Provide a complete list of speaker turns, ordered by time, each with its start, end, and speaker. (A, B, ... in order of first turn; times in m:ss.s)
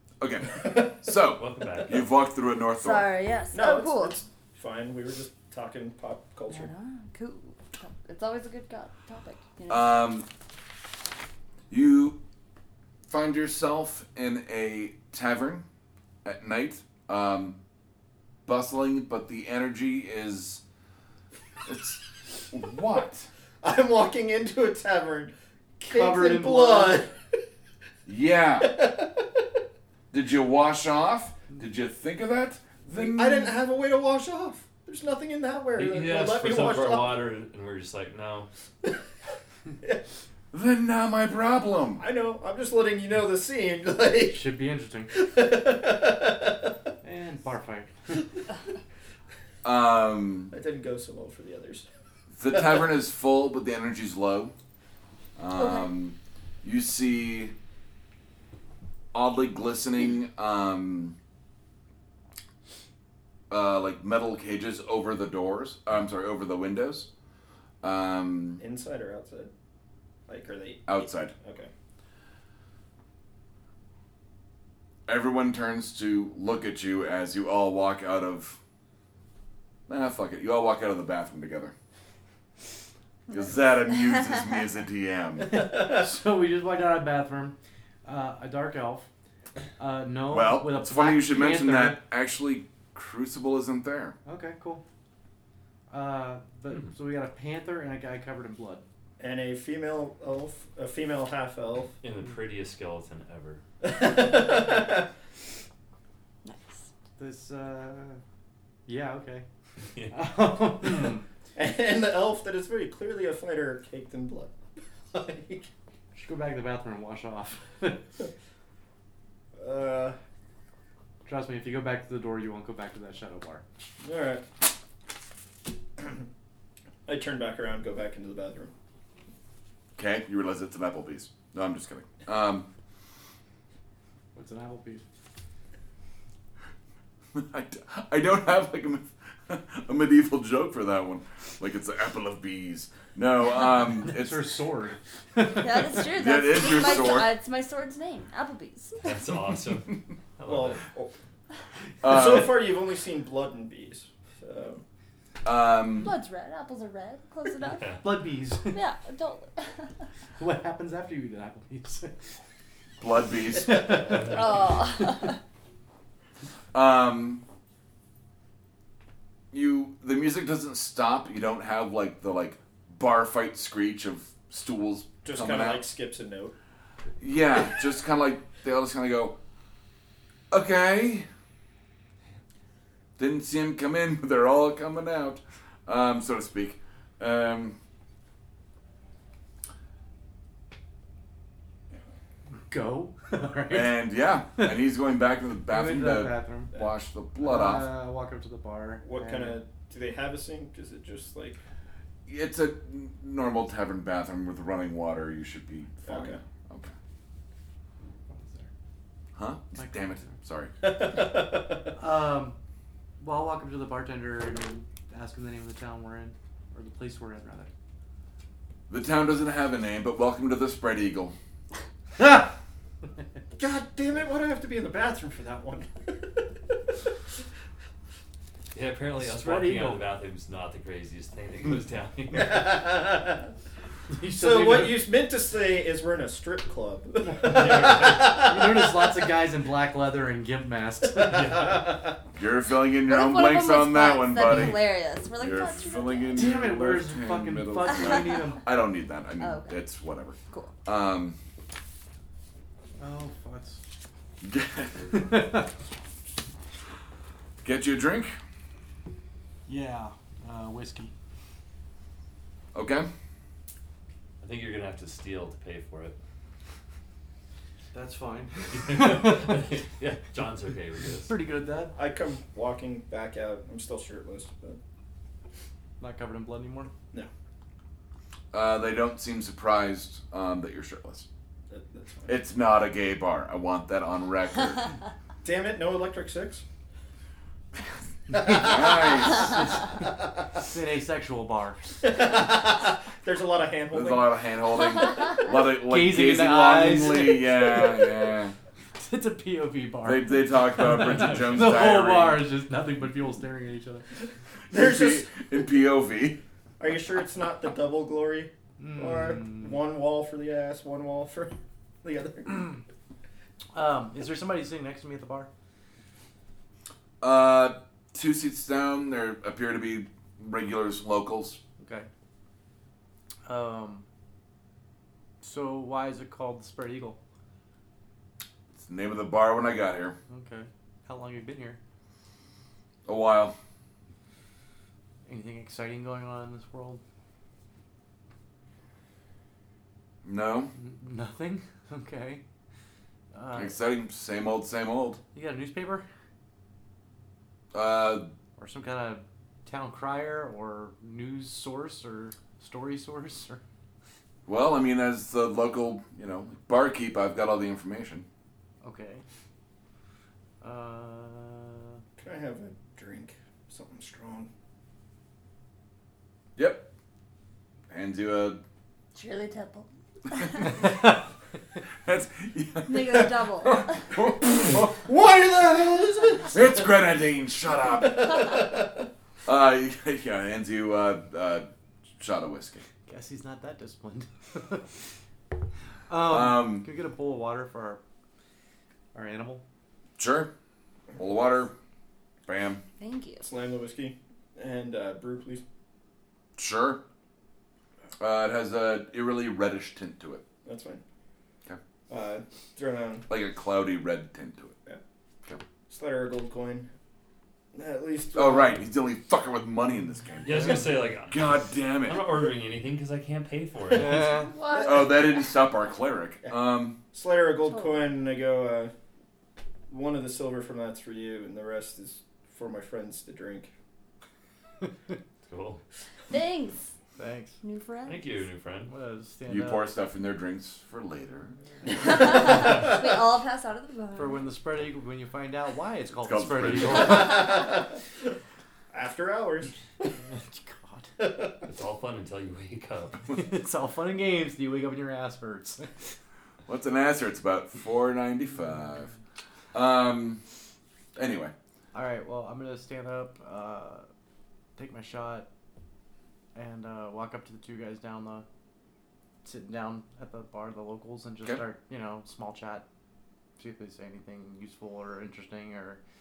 0:00.2-0:03.1 A
0:00.5-0:01.0 B
0:01.2-0:02.1 C
0:02.8-0:04.2 D
0:03.5-0:06.7 B
0:06.5-0:10.0 D
0:09.7-0:10.3 A
0:11.7-0:12.2 A
0:13.1-0:15.6 A
0:16.2-0:17.6 A
0:18.4-0:20.6 A
0:21.6-0:23.3 A
0:23.6-0:27.4 B
0:25.8-0:27.0 E
0:28.0-0:28.9 A
0:28.6-0:29.2 B
0:30.1-0:33.6 A
0:32.9-0:37.3 B
0:35.7-0:38.5 C
0:40.5-0:42.0 A
0:42.0-0:44.4 B
0:44.3-0:45.1 E
0:45.1-0:46.6 B
0:47.0-0:48.1 E
0:49.6-0:50.5 A
0:50.5-0:51.8 B
0:52.3-0:54.5 A
0:52.5-0:52.8 B
0:55.4-0:57.5 A
0:55.5-0:55.9 D
0:59.1-1:01.2 A
1:03.5-1:07.1 A
1:07.8-1:08.6 A
1:08.6-1:09.5 B
1:10.3-1:11.7 B
1:10.9-1:11.3 A
1:15.1-1:18.6 A
1:19.9-1:21.7 A
1:23.3-1:25.7 A
1:25.5-1:29.1 E
1:29.8-1:32.0 E
1:30.3-1:34.2 A
1:34.2-1:34.8 E
1:35.9-1:38.8 E
1:39.2-1:41.9 B
1:42.0-1:43.6 C
1:43.8-1:45.1 B
1:46.4-1:46.9 D
1:47.2-1:48.2 E
1:48.9-1:49.4 E
1:50.1-1:51.2 E
1:51.6-1:54.5 B
1:55.1-1:55.7 B
1:56.1-1:58.0 E
1:59.6-2:00.2 B
2:01.2-2:03.6 E
2:04.0-2:04.4 B
2:07.0-2:08.7 B
2:10.0-2:12.7 A
2:14.3-2:15.0 E
2:17.3-2:24.4 A
2:24.0-2:26.0 E
2:25.5-2:29.1 D
2:26.1-2:27.3 A
2:29.0-2:30.8 C
2:30.4-2:31.1 B
2:32.0-2:32.6 A
2:32.0-2:34.8 B
2:35.4-2:36.1 A
2:36.0-2:38.0 D
2:37.6-2:38.0 C
2:38.0-2:38.8 E
2:38.7-2:39.9 D
2:40.4-2:42.3 E
2:43.0-2:44.2 A
2:43.5-2:45.3 E
2:44.2-2:45.4 D
2:46.7-2:47.4 A
2:49.5-2:55.8 A
2:55.2-2:56.5 B
2:57.2-2:59.4 A
3:00.5-3:01.3 A
3:03.2-3:07.8 A
3:12.7-3:14.8 E
3:13.7-3:17.9 A
3:15.7-3:16.7 E
3:17.4-3:19.6 E
3:19.0-3:21.6 B
3:22.3-3:26.9 A
3:26.0-3:26.4 B
3:28.3-3:28.7 E
3:29.3-3:30.7 A
3:29.8-3:30.3 E
3:30.8-3:31.9 B
3:32.0-3:32.6 E
3:33.2-3:37.7 E
3:38.9-3:41.3 A
3:42.2-3:42.5 E
3:43.6-3:46.4 B
3:48.7-3:52.8 C
3:49.1-3:50.1 E
3:52.3-3:53.5 B
3:54.1-3:55.1 E
3:54.4-3:59.1 B
3:57.2-4:01.7 E
3:57.4-3:58.5 C
4:01.3-4:01.9 C
4:01.3-4:02.1 B
4:02.3-4:11.4 A
4:03.0-4:06.6 D
4:06.3-4:08.6 E
4:07.9-4:08.6 D
4:09.4-4:09.8 D
4:13.0-4:13.8 E
4:14.4-4:15.2 A
4:15.1-4:15.7 E
4:17.6-4:18.4 A
4:19.7-4:21.1 E
4:22.7-4:23.1 A
4:24.4-4:26.2 C
4:27.9-4:29.6 E
4:28.7-4:31.3 C
4:31.2-4:31.9 E
4:31.9-4:34.8 B
4:36.0-4:36.9 E
4:38.5-4:41.3 A
4:41.7-4:42.4 B
4:42.3-4:44.9 A
4:45.4-4:46.6 B
4:48.3-4:48.7 E
4:48.4-4:49.2 B
4:48.5-4:49.5 A
4:50.7-4:51.8 E
4:52.0-4:54.3 B
4:53.9-4:58.5 A
4:55.8-4:58.0 E
4:59.0-5:04.0 E
5:00.0-5:02.5 A
5:04.7-5:06.4 A
5:04.7-5:05.5 B
5:06.8-5:12.8 B
5:08.8-5:09.8 E
5:13.7-5:15.5 E
5:17.2-5:21.6 A
5:21.8-5:22.1 E
5:23.4-5:24.0 E
5:25.4-5:27.2 E
5:28.8-5:30.2 A
5:30.3-5:31.8 E
5:33.0-5:33.5 A
5:35.2-5:37.0 E
5:40.2-5:40.7 A
5:40.8-5:42.4 E
5:43.3-5:43.8 E
5:43.6-5:45.2 A
5:45.3-5:46.0 E
5:47.7-5:48.3 A
5:48.6-5:53.6 E
5:54.4-5:58.2 A
5:58.8-5:59.2 E
6:00.6-6:02.0 E
6:02.2-6:04.5 B
6:06.6-6:06.9 A
6:07.9-6:08.6 A
6:09.1-6:10.8 D
6:12.0-6:14.9 A
6:12.8-6:14.0 D
6:14.5-6:16.9 B
6:16.5-6:18.6 A
6:17.9-6:19.0 B
6:19.4-6:21.7 A
6:22.2-6:22.8 A
6:23.1-6:24.9 E
6:26.1-6:28.0 E
6:26.2-6:26.9 A
6:29.1-6:29.6 E
6:30.2-6:30.5 A
6:31.2-6:31.7 A
6:32.5-6:32.8 A
6:33.0-6:33.4 D
6:33.4-6:35.6 B
6:36.6-6:37.0 A
6:38.2-6:40.4 A
6:40.6-6:41.0 B
6:42.1-6:43.3 B
6:43.3-6:44.8 A
6:45.9-6:46.9 B
6:47.7-6:48.8 B
6:48.3-6:52.3 A
6:50.4-6:54.3 C
6:53.9-6:54.5 E
6:54.4-6:55.2 D
6:54.7-6:55.1 B
6:54.8-6:57.0 A
6:57.1-6:58.9 B
6:59.9-7:03.7 B
7:05.4-7:05.8 C
7:06.3-7:06.9 D
7:07.2-7:07.6 E
7:07.6-7:08.3 D
7:08.0-7:08.9 C
7:08.9-7:09.9 E
7:09.5-7:11.5 A
7:11.9-7:14.5 D
7:14.1-7:17.4 E
7:16.2-7:17.3 A
7:17.0-7:18.0 B
7:18.9-7:19.7 B
7:20.3-7:21.1 E
7:21.2-7:21.6 B
7:21.6-7:23.3 C
7:23.3-7:26.0 E
7:26.7-7:29.1 A
7:29.7-7:30.4 A
7:31.1-7:31.5 A
7:31.9-7:34.1 E
7:34.8-7:35.5 E
7:36.5-7:38.4 E
7:39.4-7:42.8 E
7:43.6-7:46.0 E